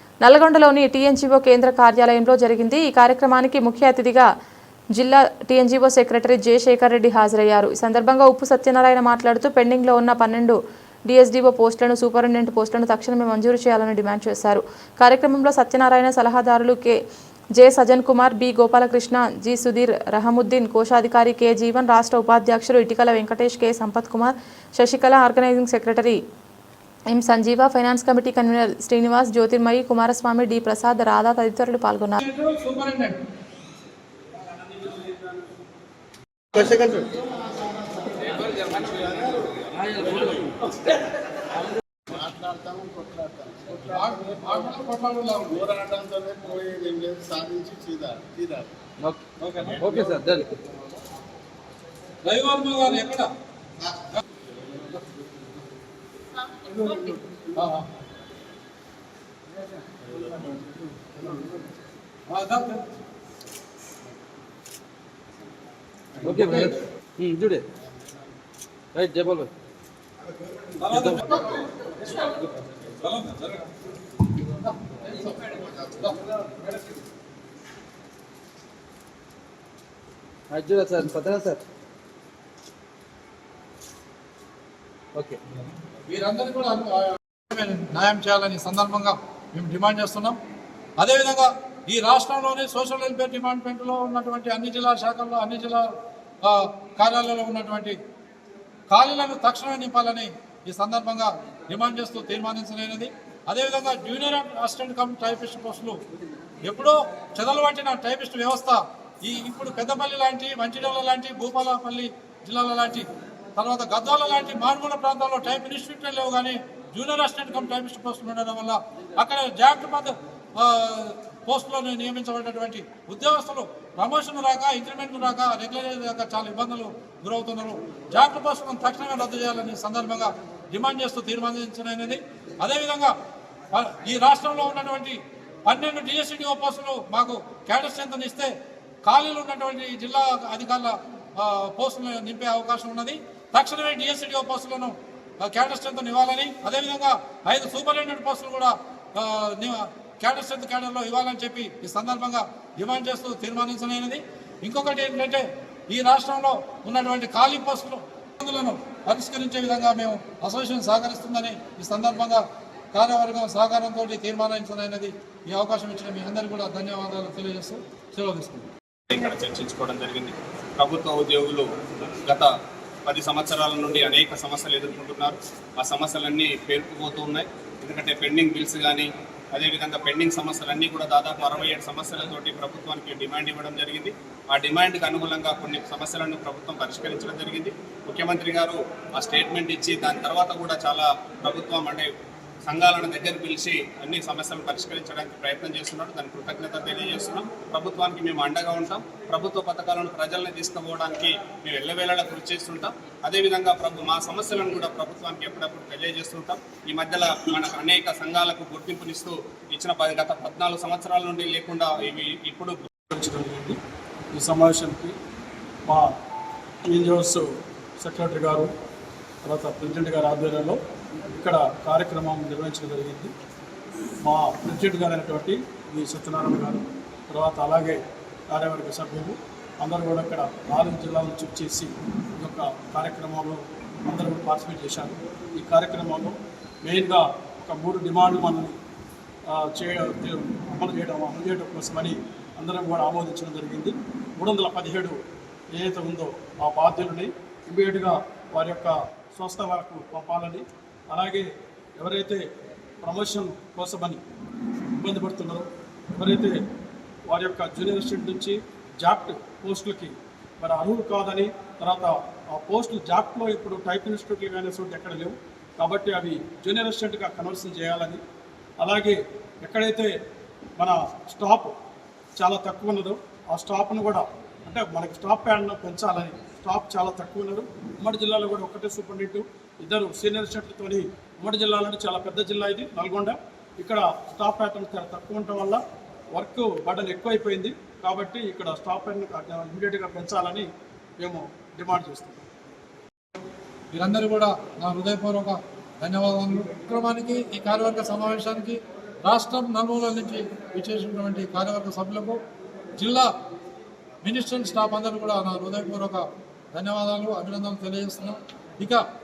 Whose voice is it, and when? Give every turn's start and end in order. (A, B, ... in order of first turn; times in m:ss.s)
0:00.2-0:04.3 A
0:04.9-0:17.0 A
0:17.5-0:26.2 A
0:27.1-0:32.2 A
0:32.2-0:33.2 B
0:36.5-0:41.0 C
0:42.1-0:44.6 C
0:43.9-0:45.6 B
0:45.5-0:48.7 C
0:49.4-0:50.1 B
0:49.8-0:50.6 D
0:52.2-0:53.3 B
0:56.6-0:57.8 B
1:02.3-1:02.8 B
1:06.2-1:07.6 D
1:06.3-1:06.7 B
1:08.9-1:09.5 D
1:10.8-1:12.2 B
1:10.9-1:11.2 D
1:12.9-1:13.7 B
1:14.4-1:16.1 B
1:20.5-1:21.6 D
1:26.1-1:30.4 B
1:31.0-1:35.8 B
1:36.4-1:38.0 B
1:38.9-1:46.0 B
1:46.6-2:13.1 B
2:13.7-2:18.5 B
2:19.0-2:42.4 B
2:42.9-2:48.7 B
2:49.1-2:51.6 E
2:52.2-2:52.5 E
2:53.0-3:12.1 E
3:12.6-3:32.8 E
3:33.1-3:33.8 F
3:34.3-3:35.2 F
3:36.9-3:37.5 F
3:38.0-3:38.7 F
3:39.4-3:40.8 F
3:41.3-3:43.3 F
3:44.2-3:58.8 F
3:59.5-4:05.2 F
4:05.8-4:11.5 F
4:12.0-4:12.4 F
4:13.0-4:14.2 F
4:15.0-4:16.5 F
4:17.3-4:28.2 F
4:28.8-4:30.1 F
4:30.8-4:31.7 F
4:32.4-4:45.8 F
4:46.3-4:50.7 F
4:51.2-4:52.4 F
4:53.9-5:02.4 B
5:03.0-5:03.3 B
5:04.2-5:09.0 B